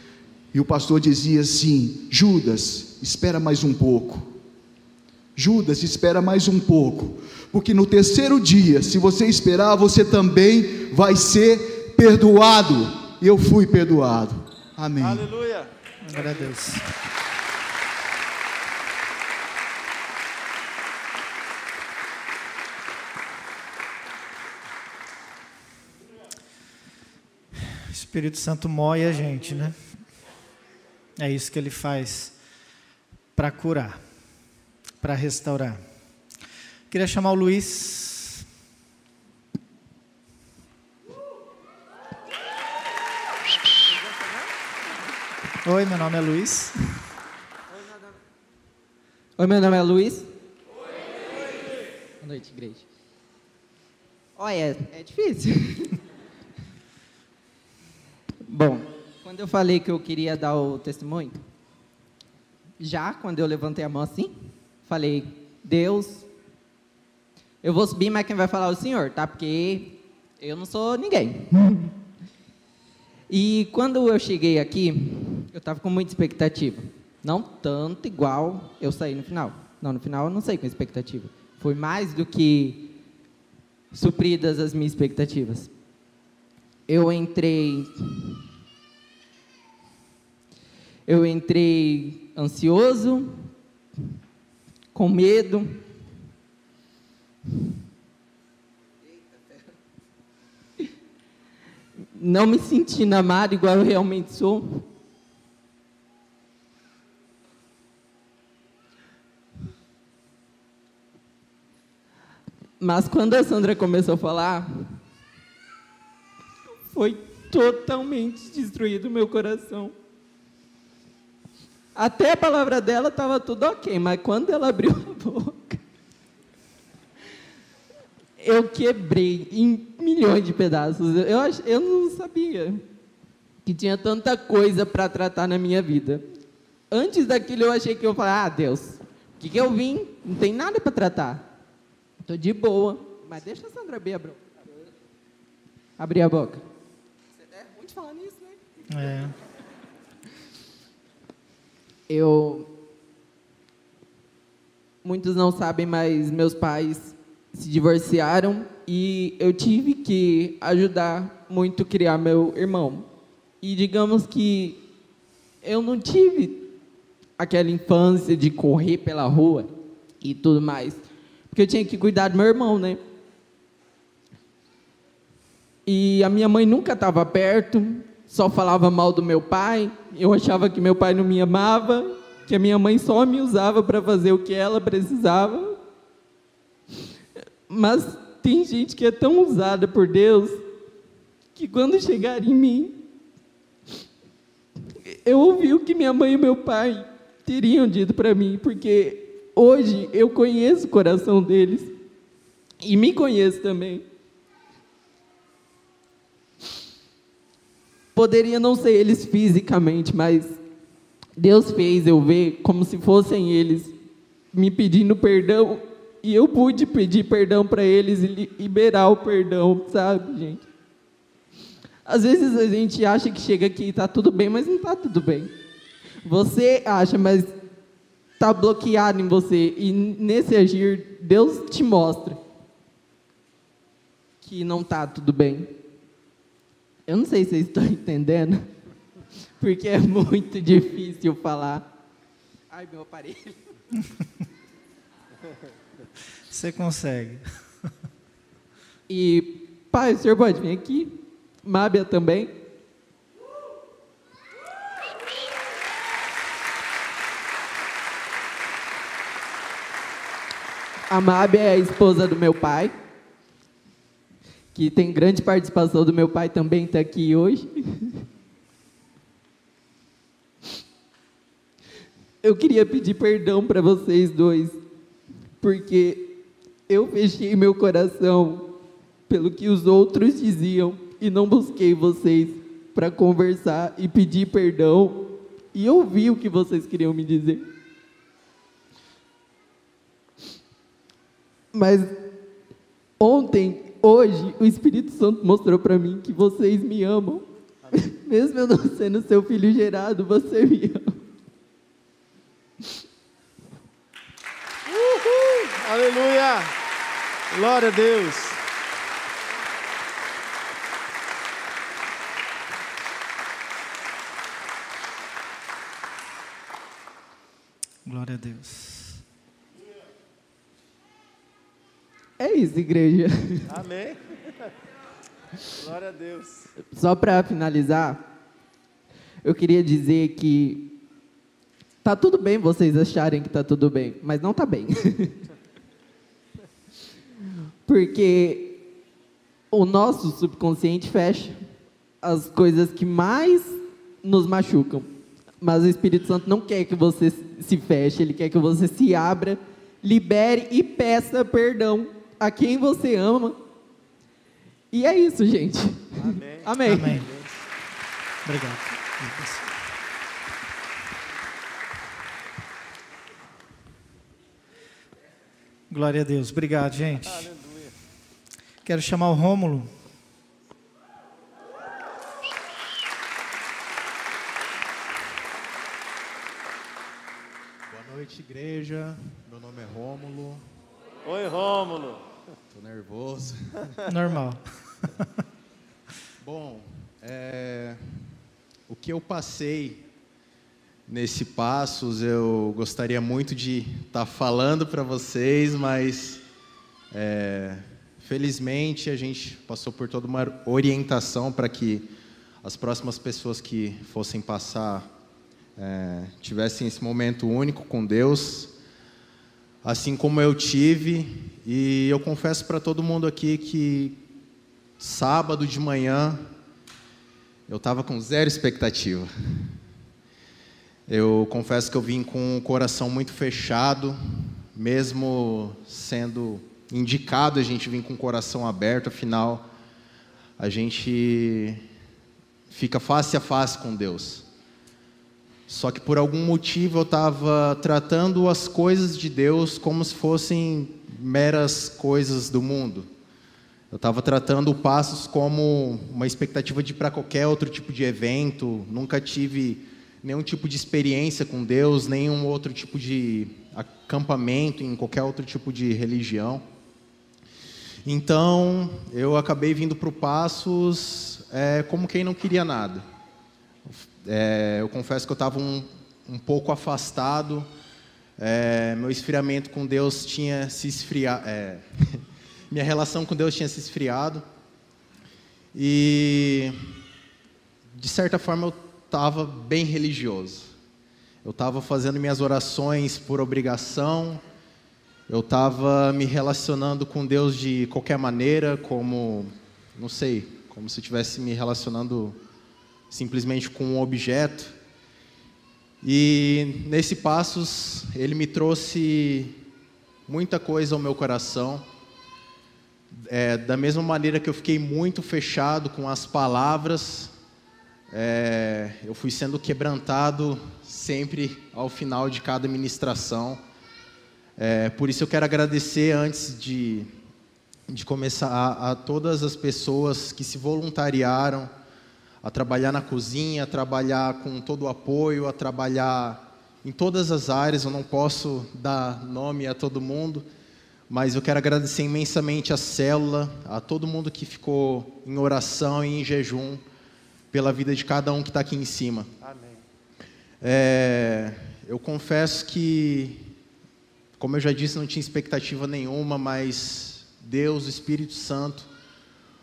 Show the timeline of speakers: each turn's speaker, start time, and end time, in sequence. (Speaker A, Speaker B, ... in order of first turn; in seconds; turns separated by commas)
Speaker A: 0.5-4.3, Speaker A: 5.3-15.3, Speaker B: 15.0-16.2, Speaker C: 16.0-16.9, Speaker C: 27.6-29.8, Speaker C: 31.2-32.3, Speaker C: 33.4-34.0, Speaker C: 35.0-35.8, Speaker C: 36.9-38.4, Speaker C: 45.6-46.7, Speaker D: 49.4-50.3, Speaker D: 52.2-52.9, Speaker D: 54.4-56.0, Speaker D: 58.4-61.4, Speaker D: 62.8-66.3, Speaker D: 67.6-71.9, Speaker D: 73.3-82.9, Speaker D: 83.9-85.7, Speaker D: 86.9-88.4, Speaker D: 91.1-93.5, Speaker D: 94.9-95.8, Speaker D: 102.1-104.8, Speaker D: 112.8-115.0, Speaker D: 116.7-119.9, Speaker D: 121.9-125.8, Speaker D: 128.4-132.8, Speaker D: 133.6-136.2, Speaker D: 136.9-141.5, Speaker D: 142.2-144.4, Speaker D: 146.0-146.6, Speaker D: 147.4-148.6, Speaker C: 148.9-149.3, Speaker D: 152.1-152.7, Speaker D: 155.0-163.1, Speaker D: 163.6-164.8, Speaker D: 165.6-166.7, Speaker D: 167.4-173.0, Speaker D: 175.8-185.8, Speaker D: 187.7-190.6, Speaker D: 191.6-193.0, Speaker D: 195.0-201.9, Speaker D: 202.8-204.0, Speaker D: 208.1-210.6, Speaker D: 211.4-213.9, Speaker D: 214.5-220.7, Speaker D: 222.1-225.5, Speaker D: 226.2-227.5, Speaker D: 228.4-232.4, Speaker D: 234.4-235.7, Speaker D: 237.1-238.7, Speaker D: 239.6-241.9, Speaker D: 242.7-243.6, Speaker C: 246.5-247.4, Speaker D: 249.1-252.5, Speaker D: 261.1-262.9, Speaker D: 264.7-268.2, Speaker D: 272.4-274.8, Speaker D: 275.6-287.7, Speaker D: 291.7-292.3, Speaker D: 293.2-301.2, Speaker B: 304.9-306.8, Speaker B: 307.5-308.6, Speaker C: 318.1-319.2, Speaker D: 322.4-323.8, Speaker B: 323.7-324.4, Speaker B: 325.8-326.7, Speaker D: 326.9-328.2, Speaker D: 329.4-330.9, Speaker D: 332.0-335.4, Speaker D: 337.9-338.9, Speaker D: 339.7-341.6, Speaker D: 342.2-353.6, Speaker D: 354.9-357.3, Speaker B: 356.2-357.5, Speaker C: 356.8-357.3, Speaker C: 358.4-359.7, Speaker C: 365.9-367.5, Speaker C: 368.8-369.9, Speaker E: 377.9-380.6, Speaker B: 381.2-382.2, Speaker E: 382.7-383.9, Speaker C: 384.1-385.1, Speaker E: 386.4-388.2, Speaker E: 388.9-390.0, Speaker E: 391.1-396.4, Speaker E: 397.1-402.1, Speaker E: 402.6-405.1, Speaker E: 405.8-408.7, Speaker E: 409.8-414.2, Speaker E: 415.0-416.4, Speaker E: 417.7-419.7, Speaker E: 421.1-424.2, Speaker E: 424.7-429.7, Speaker E: 430.6-431.8, Speaker E: 432.7-434.4, Speaker E: 435.7-443.1, Speaker E: 443.9-456.6, Speaker E: 458.0-463.0, Speaker E: 463.9-467.7, Speaker E: 468.4-474.4, Speaker E: 475.7-476.8, Speaker E: 477.9-480.7, Speaker E: 481.4-484.4, Speaker E: 485.3-492.4, Speaker E: 493.1-494.8, Speaker E: 496.0-499.6, Speaker E: 500.3-501.8, Speaker E: 503.1-507.3, Speaker E: 508.1-513.6, Speaker E: 514.6-517.1, Speaker E: 517.9-521.7, Speaker E: 522.4-530.5, Speaker E: 531.1-536.8, Speaker E: 537.5-539.3, Speaker B: 539.4-539.8, Speaker E: 540.6-543.5, Speaker E: 544.4-548.9